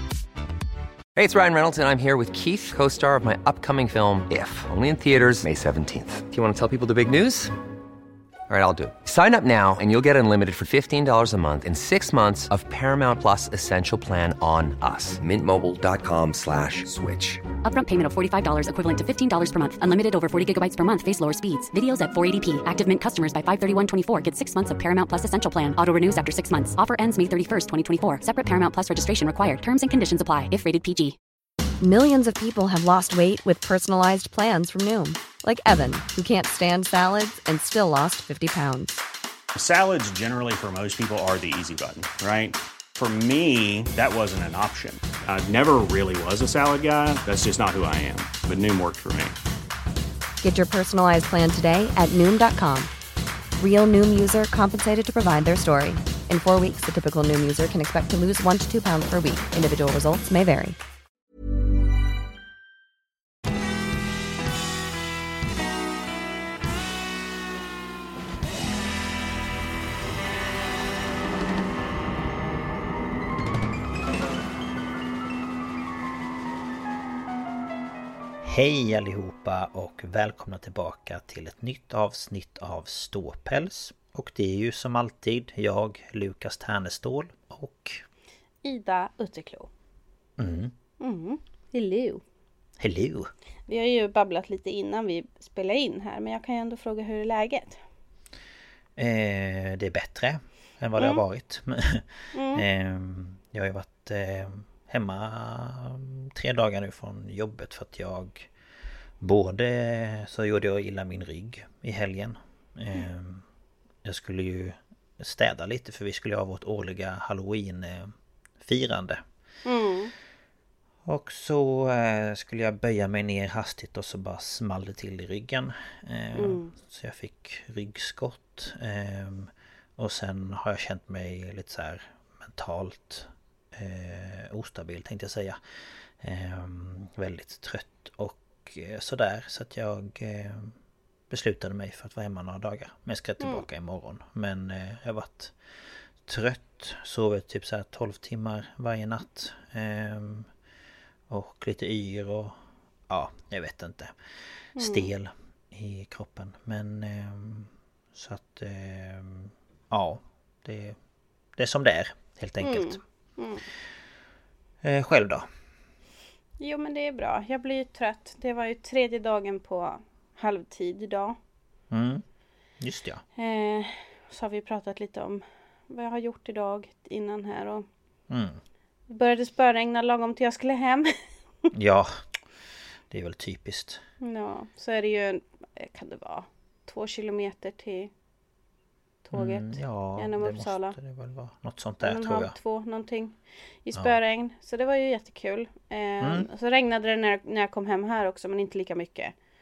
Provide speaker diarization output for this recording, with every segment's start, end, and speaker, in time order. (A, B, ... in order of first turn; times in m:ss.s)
0:01.1-0:07.5 A
0:08.5-0:17.4 A
0:17.6-0:31.2 B
0:31.8-0:39.0 C
0:39.5-0:49.4 D
0:50.4-0:52.9 C
0:53.6-1:00.8 C
1:18.4-1:28.0 E
1:28.6-1:29.7 F
1:30.4-1:30.7 E
1:31.0-1:32.2 F
1:32.8-1:33.3 E
1:33.7-1:37.8 F
1:39.0-1:48.5 E
1:42.3-1:42.6 F
1:49.2-1:53.4 E
1:54.0-1:59.2 E
1:59.6-2:00.1 F
2:01.0-2:15.6 E
2:06.3-2:06.7 F
2:16.2-2:20.8 E
2:21.3-2:30.5 E
2:31.3-2:32.6 E
2:33.1-2:34.1 E
2:34.7-2:41.0 E
2:34.8-2:35.1 F
2:41.6-2:43.0 E
2:42.6-2:43.6 F
2:44.8-2:45.5 E
2:46.6-2:51.4 F
2:51.9-2:52.2 E
2:52.8-2:53.2 E
2:53.4-2:57.8 F
2:58.3-2:58.6 E
2:59.1-3:01.1 F
3:01.7-3:02.2 E
3:03.1-3:04.0 E
3:04.2-3:08.1 F
3:09.2-3:11.0 F
3:09.3-3:12.5 E
3:12.0-3:19.3 F
3:16.2-3:16.5 E